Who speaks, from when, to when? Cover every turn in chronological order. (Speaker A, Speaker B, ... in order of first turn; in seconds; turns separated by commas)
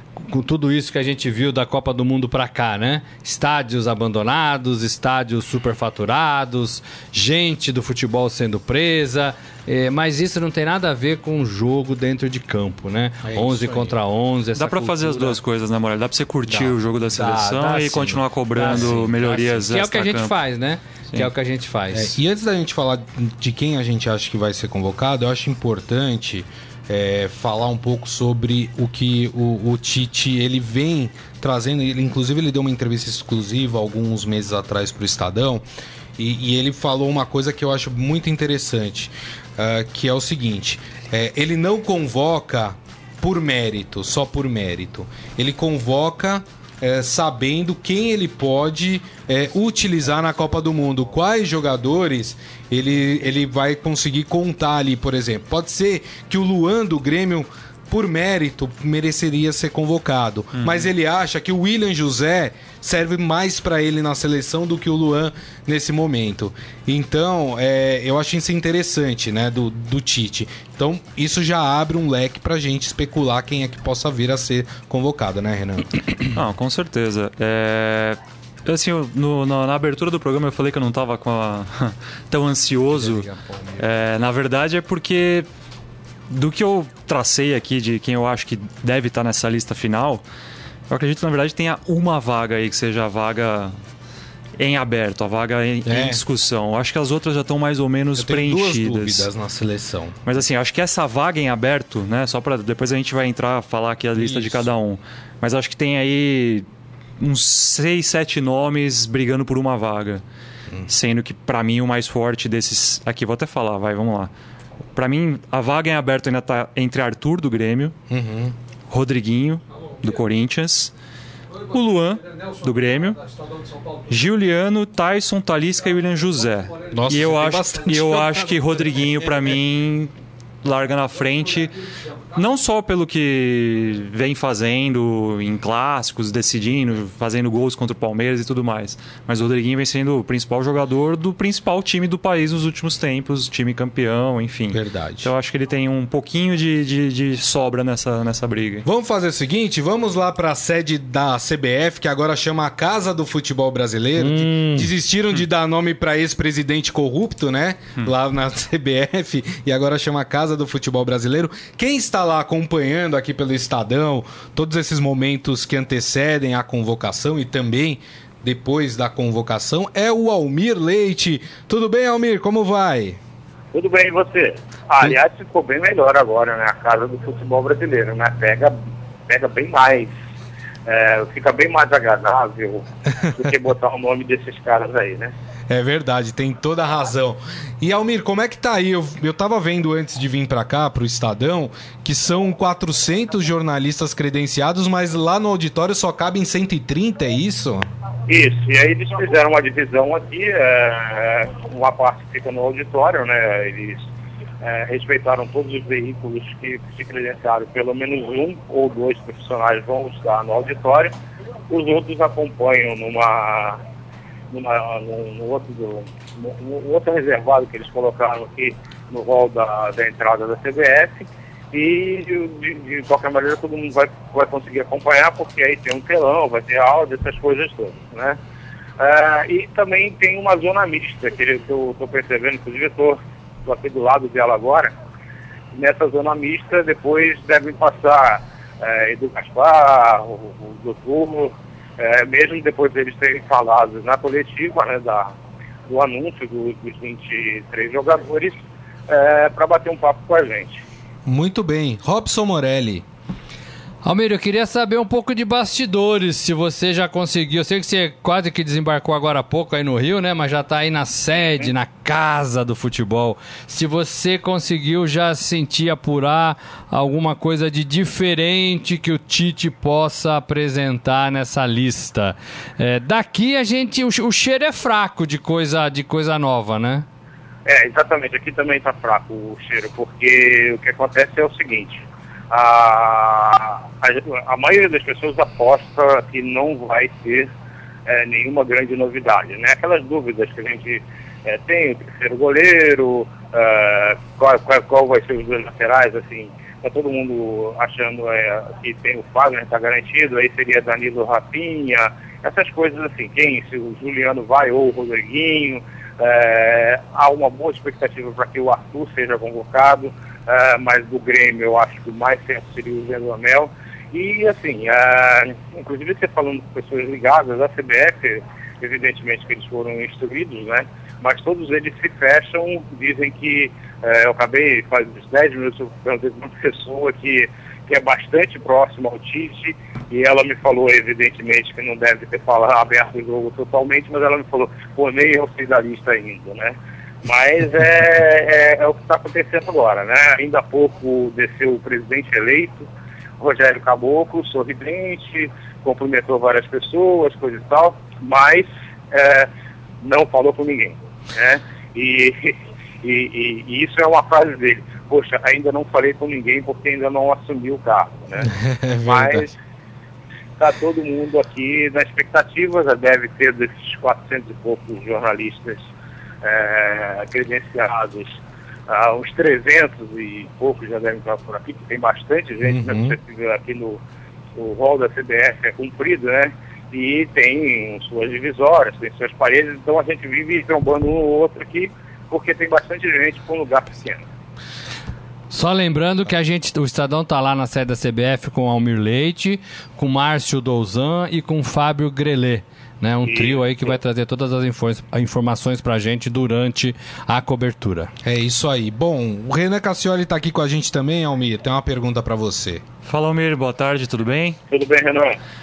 Speaker A: 0.2-15.4, Speaker B: 13.2-13.9, Speaker C: 14.6-20.4, Speaker B: 16.5-16.7, Speaker A: 17.1-22.2, Speaker B: 18.7-19.0, Speaker B: 21.9-35.6, Speaker B: 36.2-76.0, Speaker C: 60.5-60.9, Speaker C: 76.3-83.3, Speaker A: 82.9-83.8, Speaker C: 83.8-85.5, Speaker C: 86.3-90.2, Speaker C: 90.9-93.7, Speaker C: 94.6-99.3, Speaker B: 95.9-96.2, Speaker B: 98.2-100.2, Speaker C: 100.3-106.7, Speaker B: 104.2-104.7, Speaker C: 107.2-110.2, Speaker C: 110.9-114.3, Speaker C: 115.0-118.0, Speaker B: 118.1-118.6, Speaker C: 118.9-120.9, Speaker C: 121.6-130.1, Speaker B: 126.9-128.6, Speaker C: 130.6-148.9, Speaker B: 144.7-145.3, Speaker B: 148.8-173.2, Speaker A: 154.2-154.9, Speaker D: 173.7-178.8, Speaker D: 179.3-180.1, Speaker D: 180.9-185.3, Speaker B: 185.7-197.9, Speaker D: 198.3-204.0, Speaker D: 204.6-211.1, Speaker D: 211.7-213.8, Speaker D: 214.5-228.4, Speaker D: 229.0-234.9, Speaker D: 235.7-245.3, Speaker D: 245.9-250.8, Speaker B: 251.3-253.1, Speaker A: 254.0-277.1, Speaker D: 277.6-287.5, Speaker D: 288.1-342.9, Speaker D: 343.4-349.5, Speaker D: 350.0-358.5, Speaker B: 358.4-359.5, Speaker D: 359.1-359.6, Speaker D: 360.6-365.9, Speaker D: 366.4-374.0, Speaker B: 372.6-373.2, Speaker D: 374.6-384.3, Speaker A: 385.5-398.1, Speaker D: 393.2-393.9, Speaker B: 398.2-402.8, Speaker C: 403.1-404.6, Speaker D: 404.7-405.4